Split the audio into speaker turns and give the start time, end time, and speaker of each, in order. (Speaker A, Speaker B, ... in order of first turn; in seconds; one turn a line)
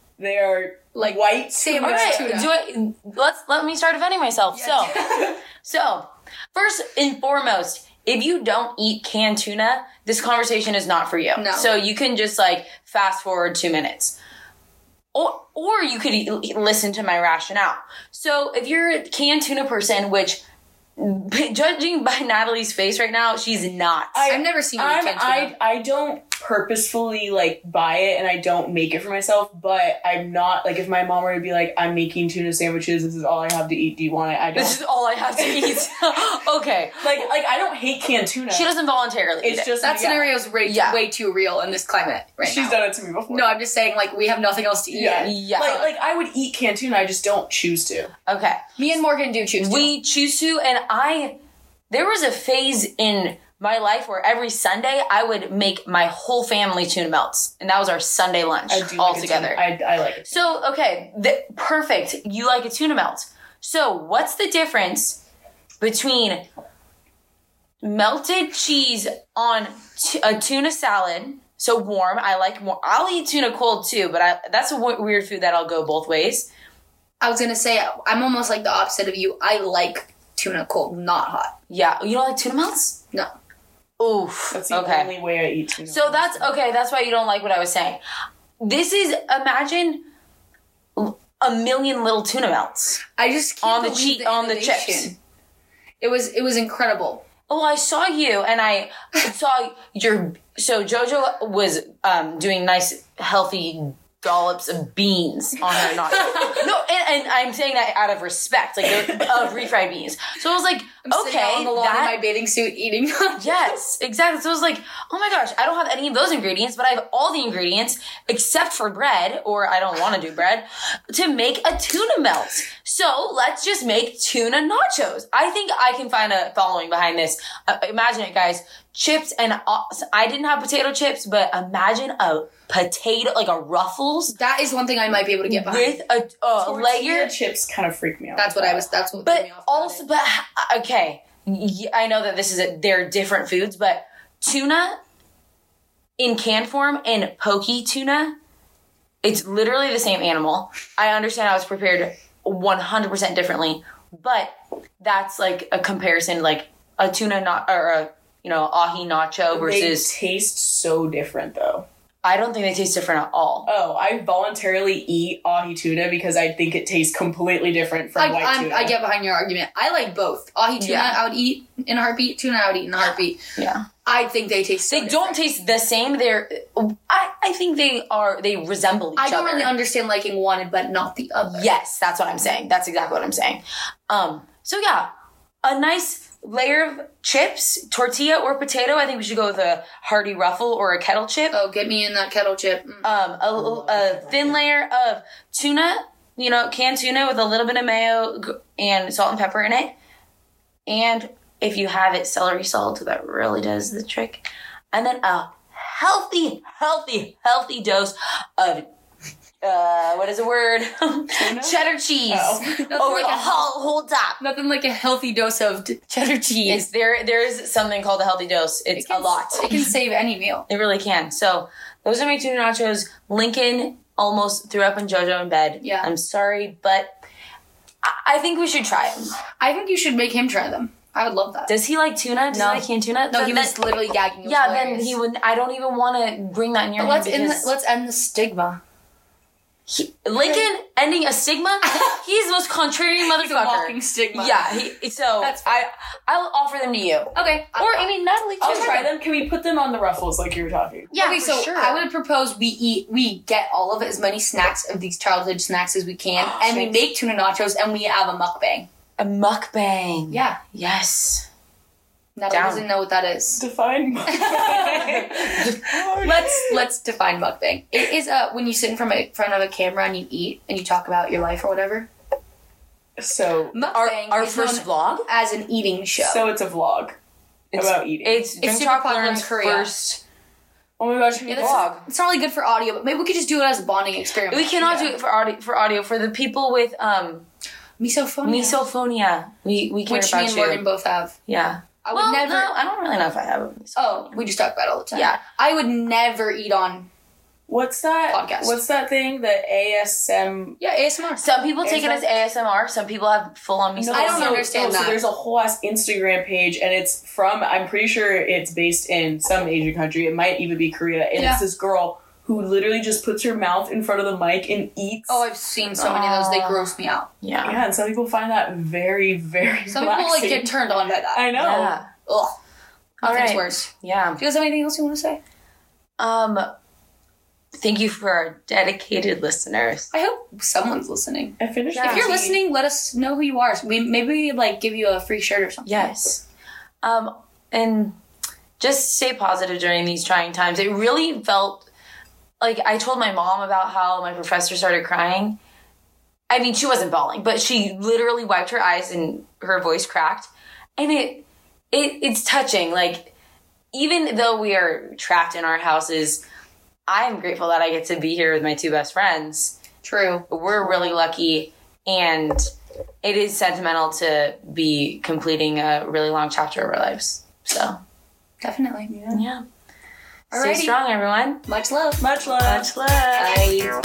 Speaker A: 0.2-2.5
Speaker B: 0.9-2.5
Speaker C: 1.8-14.2
Speaker B: 4.5-5.4
Speaker B: 11.3-11.7
Speaker C: 15.1-20.4
Speaker C: 21.0-24.2
Speaker A: 24.1-34.8
Speaker B: 24.2-25.5
Speaker C: 34.5-37.2
Speaker A: 35.5-35.8
Speaker A: 37.0-38.7
Speaker C: 38.5-39.7
Speaker A: 39.4-40.3
Speaker B: 39.8-45.8
Speaker C: 40.6-41.0
Speaker A: 42.4-43.5
Speaker A: 44.9-48.1
Speaker C: 45.1-45.9
Speaker C: 48.2-48.6
Speaker B: 48.8-49.9
Speaker C: 49.6-51.4
Speaker C: 51.9-59.6
Speaker A: 58.7-60.6
Speaker C: 60.3-65.2
Speaker C: 65.8-66.5
Speaker C: 67.8-76.5
Speaker B: 77.2-81.5
Speaker C: 81.7-83.0
Speaker C: 84.0-85.1
Speaker A: 84.5-86.5
Speaker C: 85.9-88.0
Speaker C: 88.6-90.0
Speaker C: 91.0-93.0
Speaker B: 93.2-95.2
Speaker C: 93.6-95.1
Speaker B: 96.0-97.2
Speaker C: 97.5-112.2
Speaker B: 105.8-106.7
Speaker B: 109.2-109.5
Speaker B: 111.0-113.8
Speaker C: 113.4-134.3
Speaker B: 134.3-136.0
Speaker C: 135.5-137.3
Speaker A: 136.6-138.8
Speaker B: 138.4-140.1
Speaker C: 139.2-145.0
Speaker C: 146.2-148.3
Speaker C: 149.2-160.1
Speaker A: 159.5-161.8
Speaker C: 162.2-163.7
Speaker A: 163.6-168.9
Speaker B: 168.2-173.4
Speaker C: 170.8-171.2
Speaker C: 173.6-173.9
Speaker B: 174.0-175.4
Speaker C: 174.9-179.7
Speaker B: 179.2-181.7
Speaker C: 181.5-185.1
Speaker C: 185.6-191.6
Speaker B: 191.5-193.1
Speaker C: 193.0-199.9
Speaker A: 193.6-194.6
Speaker C: 200.9-208.8
Speaker C: 209.6-214.4
Speaker A: 211.3-213.0
Speaker B: 212.8-213.7
Speaker B: 214.4-216.8
Speaker C: 216.6-219.9
Speaker B: 218.9-220.7
Speaker C: 220.7-227.1
Speaker B: 225.8-226.1
Speaker C: 228.0-229.3
Speaker B: 229.6-231.7
Speaker C: 231.7-237.7
Speaker B: 232.5-235.2
Speaker B: 237.0-238.8
Speaker C: 239.9-249.1
Speaker B: 241.9-242.2
Speaker B: 243.2-245.8
Speaker B: 247.3-249.1
Speaker A: 248.6-251.1
Speaker C: 251.1-252.0
Speaker B: 251.2-258.9
Speaker C: 256.4-257.0
Speaker C: 259.2-261.5
Speaker B: 260.3-260.6
Speaker B: 262.4-263.6
Speaker C: 262.5-262.8
Speaker A: 263.6-266.8
Speaker B: 264.3-272.1
Speaker C: 265.5-265.9
Speaker A: 273.2-273.8
Speaker B: 273.7-276.5
Speaker C: 273.9-275.2
Speaker A: 276.2-277.2
Speaker C: 277.7-280.2
Speaker A: 277.7-278.4
Speaker B: 278.6-279.9
Speaker A: 281.0-281.8
Speaker B: 281.4-285.1
Speaker C: 281.5-282.0
Speaker C: 284.5-287.4
Speaker B: 288.0-288.8
Speaker C: 288.4-290.8
Speaker B: 290.1-291.4
Speaker C: 291.5-294.4
Speaker B: 292.0-292.7
Speaker B: 294.0-297.1
Speaker C: 295.1-295.4
Speaker A: 297.7-300.8
Speaker B: 298.3-298.8
Speaker B: 300.8-301.4
Speaker C: 301.4-304.7
Speaker A: 301.8-302.3
Speaker A: 303.9-315.4
Speaker B: 304.1-305.2
Speaker B: 311.4-311.6
Speaker B: 315.3-317.3
Speaker C: 316.0-317.8
Speaker A: 317.6-320.7
Speaker B: 319.9-321.5
Speaker A: 321.3-321.9
Speaker C: 321.5-322.1
Speaker B: 322.2-322.5
Speaker C: 323.2-324.4
Speaker B: 323.2-325.4
Speaker C: 326.2-326.7
Speaker C: 327.8-330.1
Speaker B: 330.1-336.1
Speaker A: 331.6-332.6
Speaker C: 331.9-332.3
Speaker C: 335.9-336.4
Speaker C: 337.0-338.1
Speaker C: 338.8-341.9
Speaker C: 342.6-345.6
Speaker C: 346.5-353.3
Speaker C: 353.9-356.4
Speaker C: 357.1-359.8
Speaker B: 360.0-361.1
Speaker C: 360.5-362.7
Speaker C: 363.2-368.0
Speaker B: 368.6-369.1
Speaker A: 369.1-369.4
Speaker C: 369.3-369.6
Speaker B: 370.5-370.9
Speaker C: 370.5-371.6
Speaker B: 371.7-372.2
Speaker A: 372.2-372.9
Speaker C: 372.6-373.6
Speaker B: 373.4-373.9